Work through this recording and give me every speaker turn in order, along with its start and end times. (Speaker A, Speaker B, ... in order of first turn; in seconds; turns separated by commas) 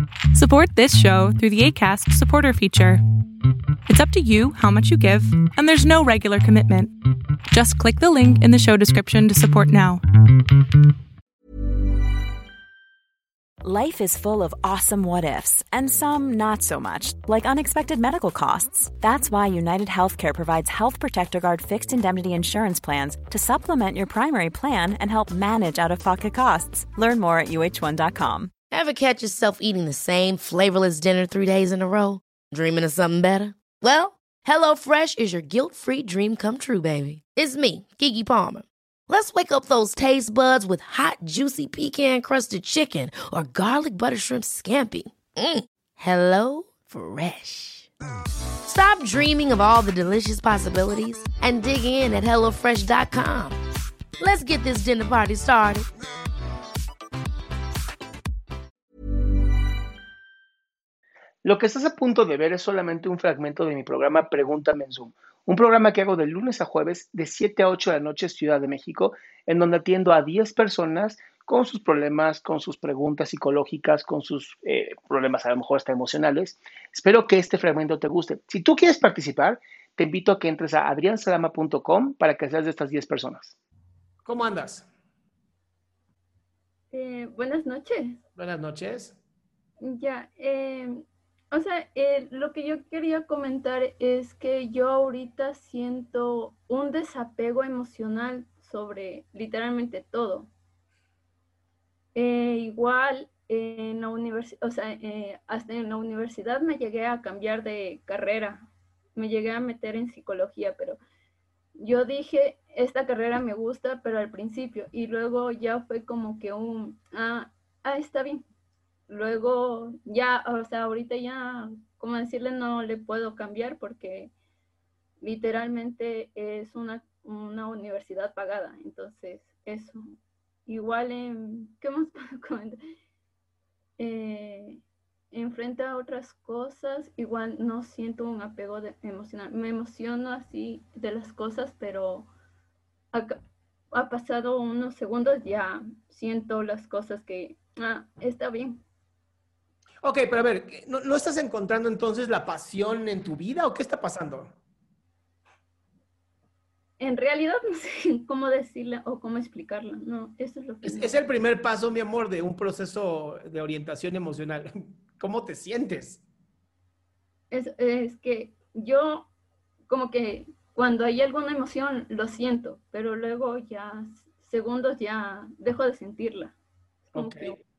Speaker A: 0.3-3.0, Speaker A: 3.9-6.9, Speaker A: 7.5-10.0, Speaker B: 13.6-28.5, Speaker C: 28.7-47.9, Speaker C: 48.6-53.6, Speaker C: 54.2-55.9, Speaker D: 61.4-83.5, Speaker D: 84.3-84.8, Speaker E: 86.9-88.2, Speaker E: 89.8-100.5, Speaker E: 102.1-108.6, Speaker E: 109.1-111.0, Speaker E: 111.7-118.5, Speaker E: 119.1-124.3, Speaker E: 125.2-130.0, Speaker E: 130.7-132.8, Speaker E: 134.0-142.3, Speaker E: 143.9-148.8, Speaker D: 150.1-154.2, Speaker E: 157.0-161.2, Speaker D: 160.8-164.6, Speaker D: 165.3-166.0, Speaker E: 167.5-169.3, Speaker E: 169.9-176.6, Speaker E: 177.1-177.6, Speaker D: 177.2-177.5